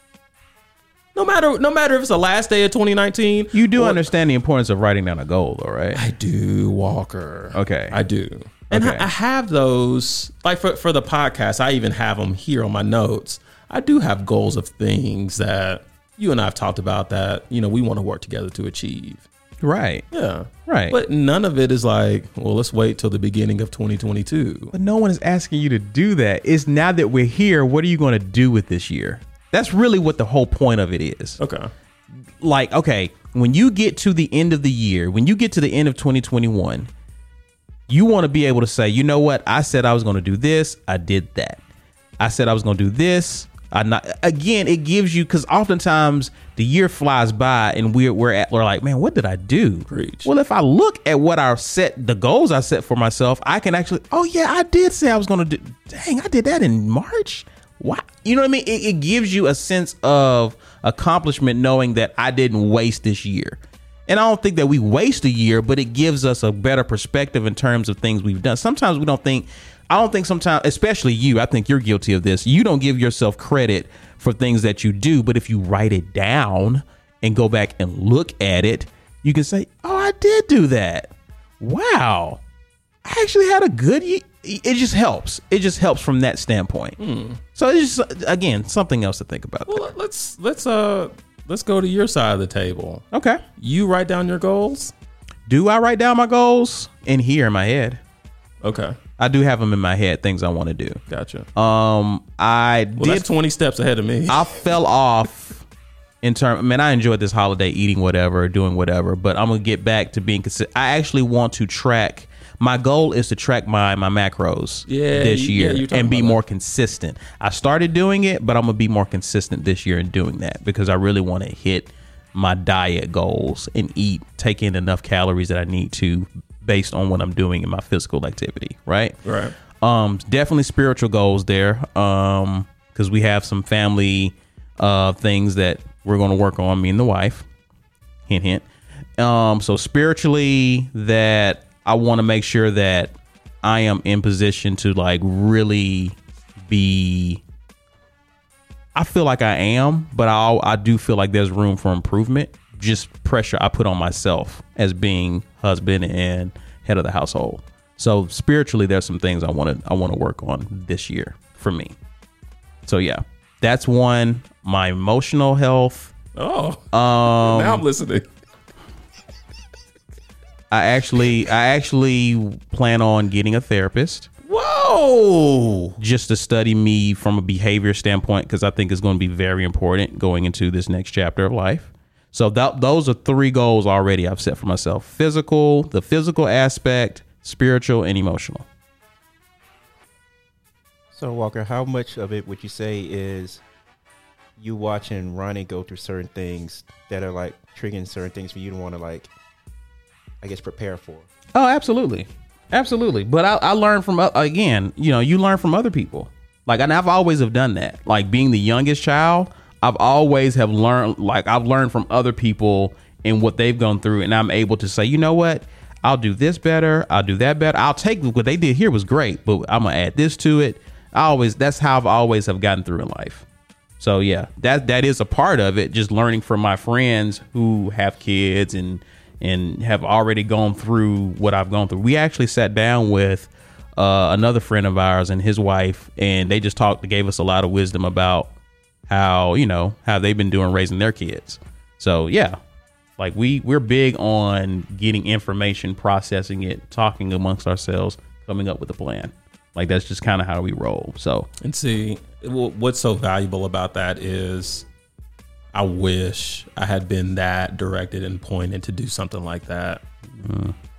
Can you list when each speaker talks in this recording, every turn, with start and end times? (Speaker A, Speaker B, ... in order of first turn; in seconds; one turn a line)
Speaker A: 1.1-4.1
Speaker B: 3.5-6.0
Speaker A: 5.9-19.2
Speaker B: 7.5-8.0
Speaker B: 8.7-9.1
Speaker B: 19.6-20.0
Speaker A: 20.1-24.7
Speaker B: 20.7-21.0
Speaker B: 24.7-31.4
Speaker A: 31.4-31.7
Speaker B: 32.4-36.9
Speaker B: 37.9-41.6
Speaker B: 42.2-82.4
Speaker A: 49.9-50.3
Speaker B: 83.0-87.0
Speaker A: 87.0-87.4
Speaker B: 87.5-89.9
Speaker A: 89.7-93.1
Speaker B: 93.1-93.4
Speaker A: 93.6-94.9
Speaker B: 95.5-98.0
Speaker A: 98.6-99.0
Speaker B: 99.2-101.0
Speaker A: 101.1-101.5
Speaker B: 101.5-103.3
Speaker A: 103.0-104.5
Speaker B: 104.3-105.6
Speaker B: 106.2-129.2
Speaker A: 114.9-116.4
Speaker A: 129.2-129.6
Speaker B: 129.8-137.5
Speaker B: 138.3-138.7
Speaker B: 139.2-147.4
Speaker B: 148.9-162.0
Speaker B: 162.9-166.1
Speaker A: 166.3-168.3
Speaker B: 166.9-167.8
Speaker B: 170.7-174.3
Speaker A: 174.5-176.0
Speaker B: 176.0-188.7
Speaker C: 191.1-193.6
Speaker C: 194.6-199.3
Speaker C: 200.4-201.3
Speaker B: 201.6-223.4
Speaker B: 224.0-238.5
Speaker B: 239.1-242.6
Speaker B: 243.2-251.5
Speaker A: 251.6-254.9
Speaker A: 255.7-260.0
Speaker B: 260.4-260.7